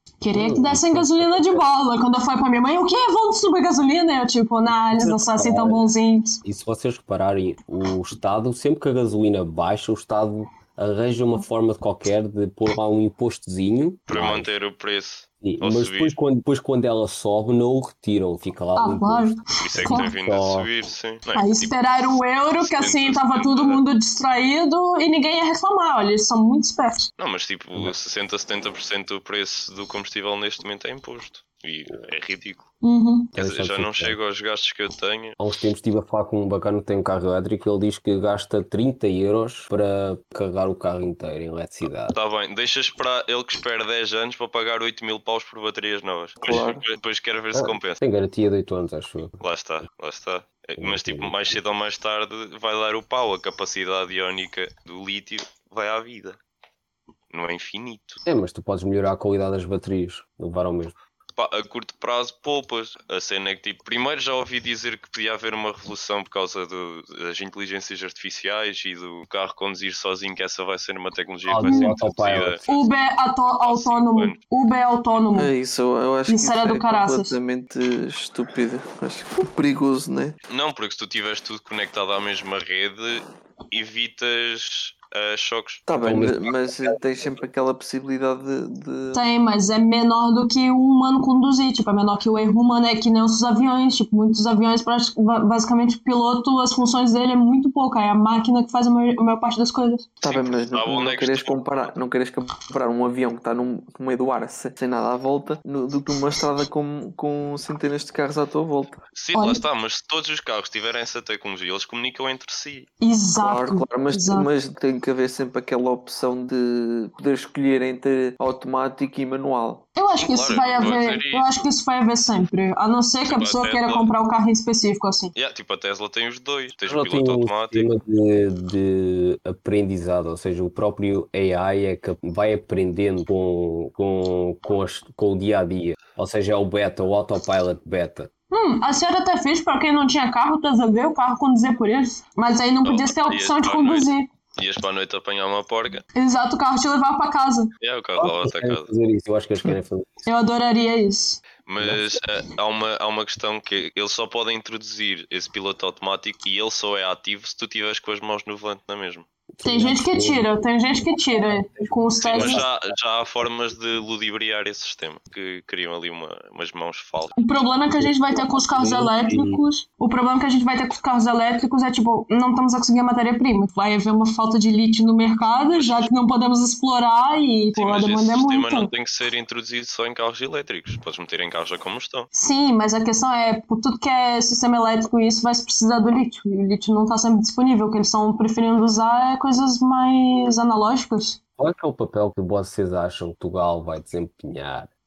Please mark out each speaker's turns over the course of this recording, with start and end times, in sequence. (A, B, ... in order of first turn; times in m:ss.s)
0:00.2-0:06.4 A
0:00.3-0:01.6 B
0:04.9-0:05.8 B
0:06.4-0:14.5 B
0:14.1-0:16.1 C
0:15.4-0:20.7 B
0:18.8-0:20.1 A
0:19.6-0:23.8 C
0:21.3-0:27.1 A
0:27.2-0:32.6 C
0:32.8-0:33.3 A
0:33.3-0:34.2 B
0:33.4-0:35.4 C
0:35.4-0:42.2 B
0:42.1-0:48.0 C
0:46.4-0:46.8 D
0:47.5-0:49.4 B
0:49.4-0:56.4 C
0:50.8-0:51.6 B
0:57.3-0:58.2 C
0:58.2-1:00.9 B
1:01.4-1:12.8 C
1:11.5-1:12.7 B
1:11.6-1:11.9 A
1:12.7-1:15.5 A
1:13.6-1:14.4 C
1:15.3-1:20.4 D
1:16.3-1:17.4 A
1:20.5-1:25.8 C
1:25.9-1:29.2 D
1:26.0-1:27.0 B
1:29.1-1:40.1 A
1:40.2-1:49.0 D
1:40.2-1:41.9 C
1:49.1-1:52.9 C
1:49.3-1:49.6 A
1:53.0-1:54.5 A
1:53.4-1:59.9 D
2:00.0-2:05.3 A
2:00.1-2:01.7 C
2:03.3-2:04.1 C
2:05.3-2:07.9 C
2:06.8-2:18.3 B
2:18.5-2:24.3 A
2:22.8-2:26.0 C
2:26.1-2:27.7 A
2:27.8-2:28.9 C
2:28.2-2:30.3 B
2:30.2-2:31.4 A
2:31.6-2:39.2 C
2:31.8-2:32.2 B
2:39.6-2:40.5 B
2:39.6-2:42.6 A
2:41.0-2:42.9 B
2:42.2-2:47.4 C
2:47.4-2:58.9 A
2:47.9-2:49.6 B
2:55.7-2:56.1 C
2:57.8-3:02.3 C
3:02.3-3:11.4 A
3:11.6-3:14.9 B